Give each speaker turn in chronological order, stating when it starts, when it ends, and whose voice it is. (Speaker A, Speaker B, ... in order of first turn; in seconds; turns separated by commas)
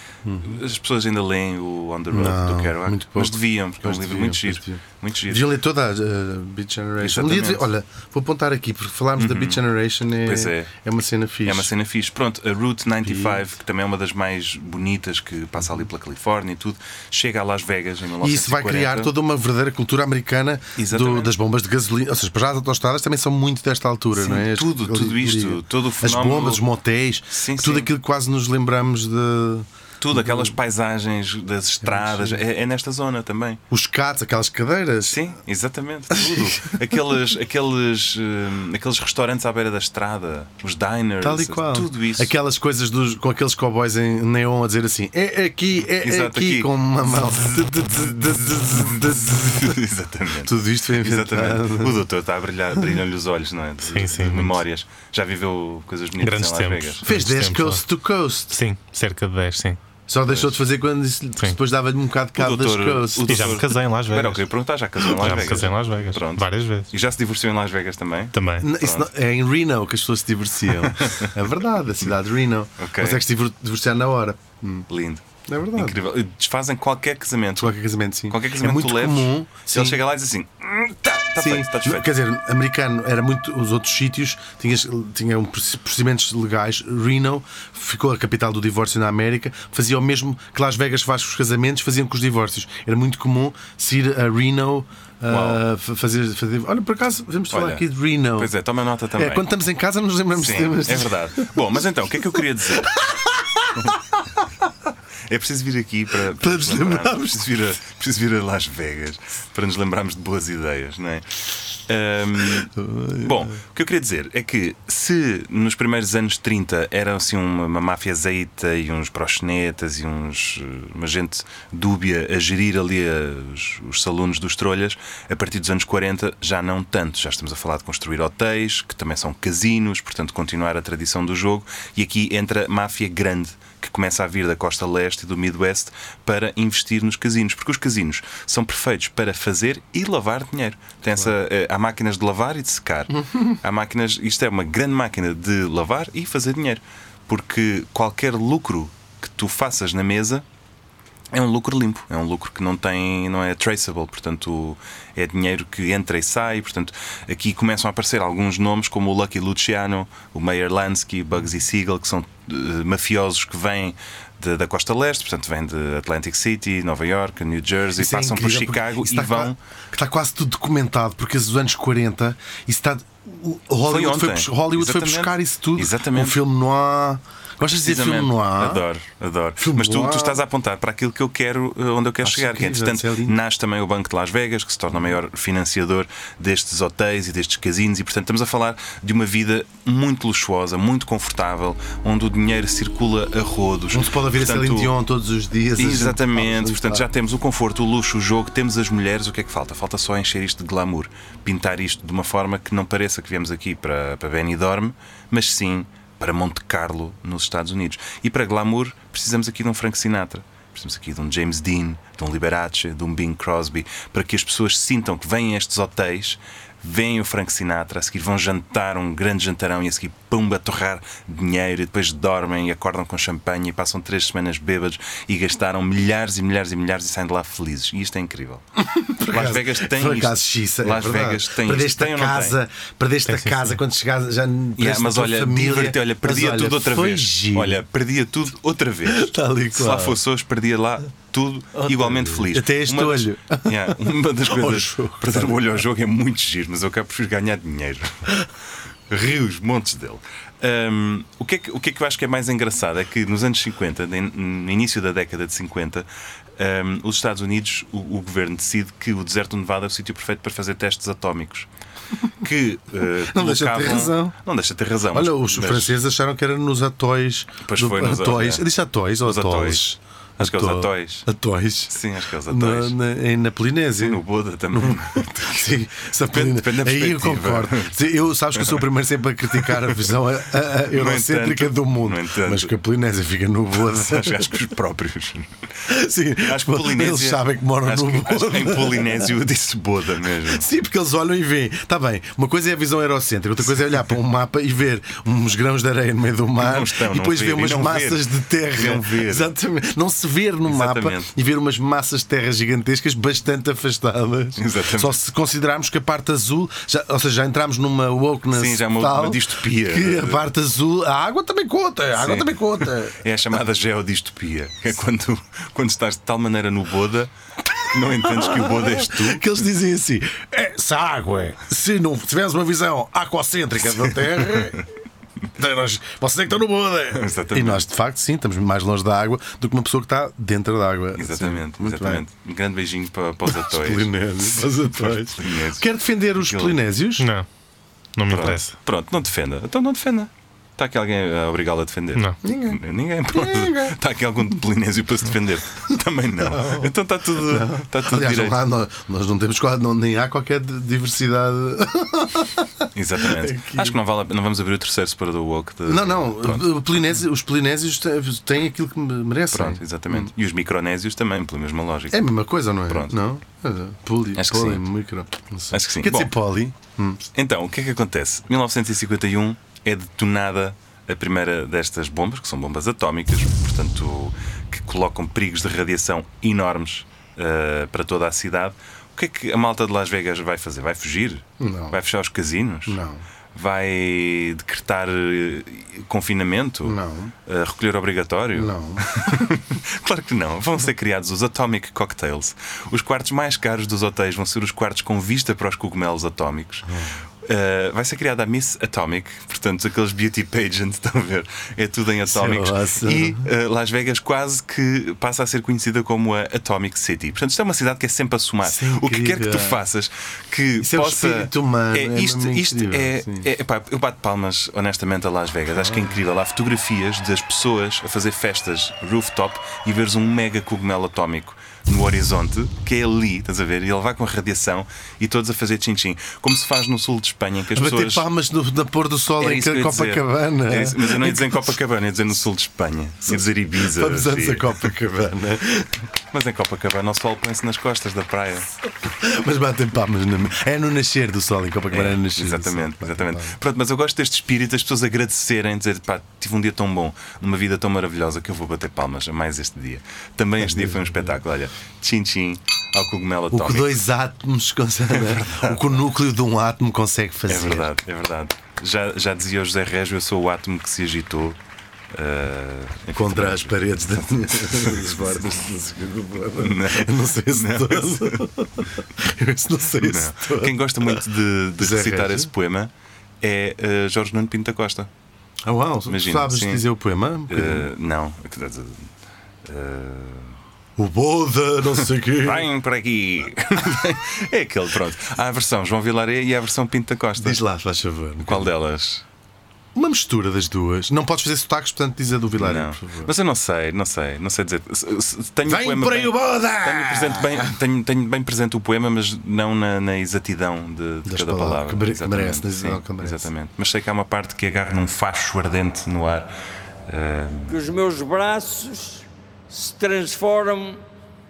Speaker A: 0.2-0.6, Speaker B: 0.4-5.5, Speaker A: 2.1-11.7, Speaker B: 7.0-7.7, Speaker B: 9.2-9.6, Speaker B: 10.2-10.7, Speaker B: 11.4-19.1, Speaker A: 13.0-13.4, Speaker A: 15.6-15.8, Speaker A: 18.2-30.5, Speaker B: 20.8-21.3, Speaker B: 24.1-26.6, Speaker B: 27.3-27.9, Speaker B: 30.0-33.6, Speaker A: 31.8-32.4, Speaker A: 33.7-35.2, Speaker B: 35.0-42.3, Speaker A: 36.1-36.6, Speaker A: 41.2-49.8, Speaker B: 46.0-57.0, Speaker A: 50.4-52.1, Speaker C: 53.9-54.6, Speaker C: 56.2-57.9, Speaker A: 57.0-58.6, Speaker C: 58.5-59.8, Speaker A: 60.1-63.6, Speaker B: 60.3-60.6, Speaker B: 62.4-69.1, Speaker C: 63.3-64.5, Speaker C: 65.0-66.9, Speaker A: 65.2-65.6, Speaker C: 68.3-68.7, Speaker A: 68.6-74.9, Speaker B: 70.8-71.3, Speaker B: 72.8-73.2, Speaker B: 74.9-77.8, Speaker A: 75.5-76.0, Speaker A: 77.6-80.0, Speaker B: 78.3-82.1, Speaker A: 81.4-98.5, Speaker B: 95.3-95.6, Speaker B: 97.5-99.5, Speaker A: 99.2-101.8, Speaker B: 100.3-103.0, Speaker A: 102.3-104.5, Speaker B: 105.3-150.4, Speaker A: 106.3-107.6, Speaker A: 112.8-113.5, Speaker A: 143.2-143.5, Speaker B: 151.3-169.6, Speaker A: 168.0-178.8, Speaker B: 173.8-176.4, Speaker B: 177.8-194.9, Speaker A: 179.6-180.4, Speaker A: 182.2-183.4, Speaker A: 193.9-197.1, Speaker B: 195.8-228.6, Speaker A: 228.8-237.8, Speaker B: 229.3-232.6, Speaker C: 233.3-233.8, Speaker B: 234.8-248.4, Speaker A: 239.1-240.2, Speaker A: 241.8-245.6, Speaker B: 249.1-256.1, Speaker B: 256.6-261.7, Speaker B: 262.3-266.0, Speaker A: 263.2-264.4, Speaker A: 265.1-284.5, Speaker B: 267.6-268.7, Speaker B: 269.2-269.9, Speaker B: 270.4-271.3, Speaker B: 271.9-273.0, Speaker B: 274.0-275.7, Speaker B: 276.3-278.0, Speaker B: 278.6-278.8, Speaker B: 279.5-280.1, Speaker B: 280.8-282.8, Speaker B: 283.7-285.5, Speaker A: 285.9-289.3, Speaker B: 286.4-290.6, Speaker A: 290.4-313.2, Speaker B: 296.6-299.5, Speaker B: 300.7-301.3, Speaker B: 304.6-305.2, Speaker B: 308.5-310.4, Speaker B: 312.2-317.3, Speaker B: 317.8-319.5, Speaker A: 318.0-324.9, Speaker A: 325.6-332.2, Speaker B: 327.1-327.9, Speaker B: 331.1-336.8, Speaker A: 333.5-337.3, Speaker C: 337.2-337.5, Speaker C: 338.2-338.7, Speaker B: 338.3-348.6, Speaker A: 342.4-344.0, Speaker A: 346.4-354.0, Speaker B: 352.9-356.9, Speaker A: 355.9-360.3, Speaker B: 359.5-362.3, Speaker A: 362.1-367.2, Speaker B: 362.9-363.2, Speaker B: 364.4-364.9, Speaker B: 365.7-366.4, Speaker B: 367.3-383.0, Speaker A: 381.6-382.0, Speaker A: 382.9-383.2, Speaker B: 383.5-396.9, Speaker A: 386.8-387.3, Speaker A: 388.6-389.1, Speaker A: 396.9-397.2, Speaker B: 397.4-428.2, Speaker A: 402.2-403.5, Speaker A: 408.6-409.8, Speaker A: 410.8-413.5, Speaker A: 415.8-416.2, Speaker A: 427.7-431.7, Speaker B: 429.4-434.9, Speaker A: 433.3-435.9, Speaker B: 436.3-438.7, Speaker A: 439.1-443.6, Speaker B: 441.9-454.0, Speaker A: 450.6-451.4, Speaker A: 453.5-457.9, Speaker B: 455.1-456.0, Speaker B: 457.5-461.6, Speaker B: 462.1-465.5, Speaker A: 463.1-471.2, Speaker B: 466.6-468.5, Speaker B: 470.0-475.1, Speaker A: 471.8-472.5, Speaker A: 475.6-477.9, Speaker B: 476.1-476.8, Speaker B: 477.5-479.1, Speaker B: 479.6-480.6, Speaker A: 481.0-482.7, Speaker B: 482.3-487.6, Speaker A: 487.4-488.7, Speaker B: 488.4-489.2, Speaker A: 489.9-493.3, Speaker B: 492.6-506.5, Speaker A: 495.7-497.8, Speaker A: 501.2-503.4, Speaker B: 507.1-507.7, Speaker D: 507.7-511.0